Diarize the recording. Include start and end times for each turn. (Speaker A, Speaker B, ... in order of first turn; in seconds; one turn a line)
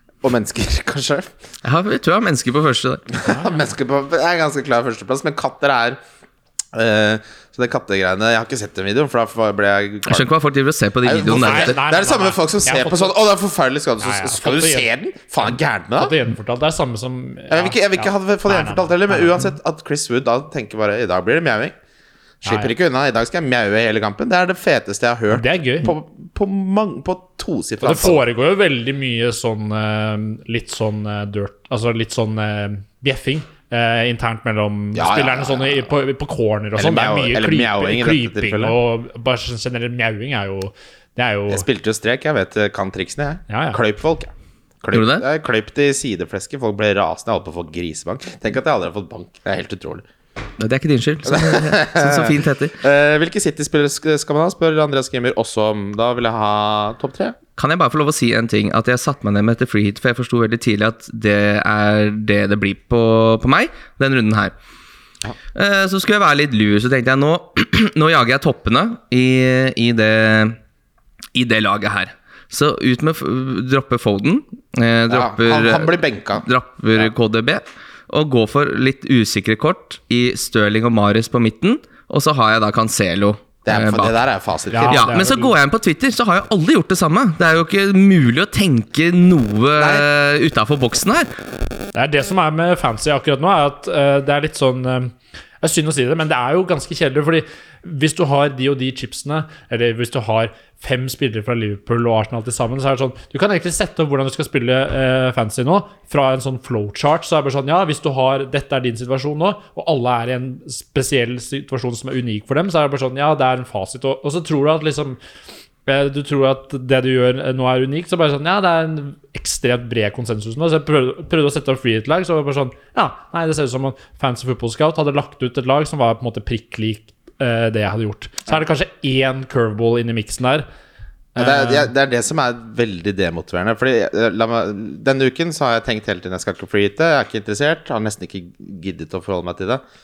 Speaker A: 0.2-1.3
Speaker B: 1.6-3.1
Speaker A: 3.1-6.0
Speaker C: 3.3-3.5
Speaker A: 6.7-10.3
Speaker B: 10.1-11.8
Speaker A: 11.0-16.1
Speaker C: 11.3-13.2
Speaker C: 14.0-14.9
Speaker C: 16.0-19.5
Speaker A: 17.5-21.8
Speaker A: 22.4-28.2
Speaker C: 22.4-22.7
Speaker C: 25.3-25.9
Speaker C: 27.8-41.7
Speaker A: 35.0-35.9
Speaker A: 36.8-38.8
Speaker A: 41.5-44.3
Speaker C: 43.5-43.8
Speaker A: 44.8-50.0
Speaker B: 44.9-45.3
Speaker B: 50.6-52.8
Speaker A: 51.3-57.4
Speaker B: 57.6-64.5
Speaker B: 65.5-70.6
Speaker B: 71.3-84.2
Speaker A: 75.1-77.1
Speaker A: 83.7-85.2
Speaker C: 84.7-85.5
Speaker B: 84.9-91.3
Speaker A: 89.8-90.1
Speaker C: 92.0-115.2
Speaker C: 115.9-130.7
Speaker C: 131.3-131.9
Speaker A: 131.4-139.8